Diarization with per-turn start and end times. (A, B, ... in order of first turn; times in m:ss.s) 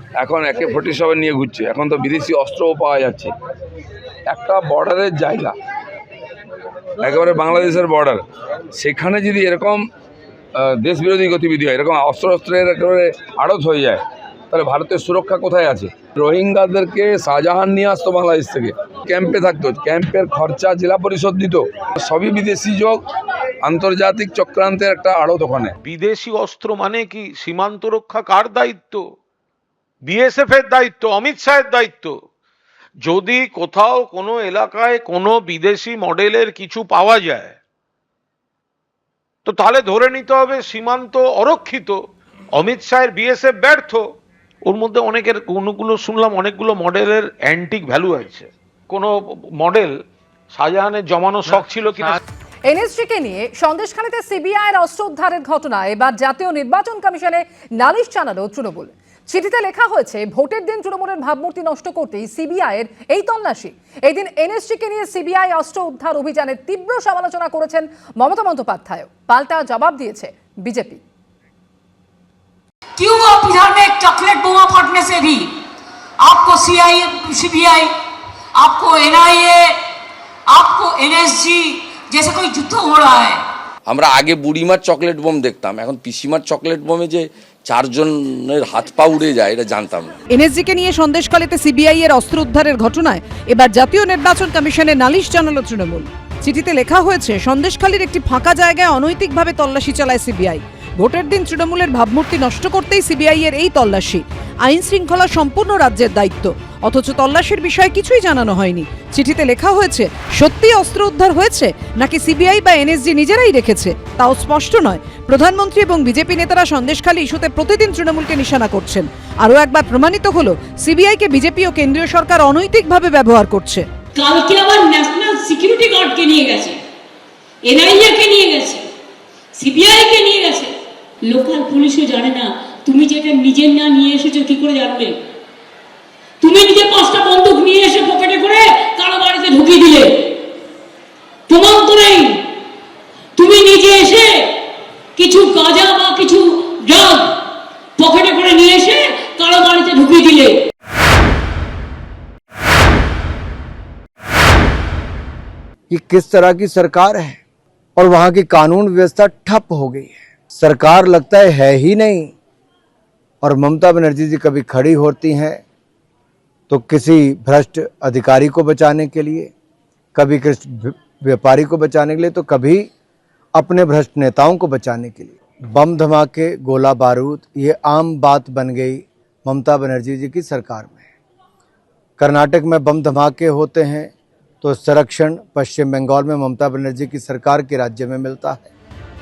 0:00.2-0:03.3 A
0:04.2-0:05.5 A
0:07.0-0:08.2 A
0:08.7-0:09.9 A
0:10.6-0:23.0 A
0:23.6-0:25.8 A
0:25.8-0:29.0 B
0:30.0-0:32.2 B
0:33.0-0:37.6 B
0:39.4-0:42.0 B
0:42.5-0:44.0 B
0:44.6-0:49.9 B
0:50.5-0:52.2 B
0:52.6-1:11.0 C
1:13.0-1:15.5 D
1:16.2-1:17.9 D
1:18.6-1:19.8 D
1:20.5-1:23.4 D
1:23.9-1:30.1 E
1:30.3-2:03.9 F
2:04.2-2:06.8 D
2:07.6-2:08.9 D
2:09.6-2:10.7 D
2:11.2-2:15.2 D
2:16.4-2:20.4 D
2:21.5-2:22.4 D
2:23.4-2:24.6 D
2:25.2-2:27.4 D
2:28.0-2:30.6 D
2:35.9-2:37.4 G
2:38.0-2:42.3 G
2:43.4-2:45.6 G
2:46.7-2:49.5 G
2:50.2-2:52.9 G
2:53.6-3:01.0 G
3:02.2-3:04.1 G
3:04.6-3:08.6 G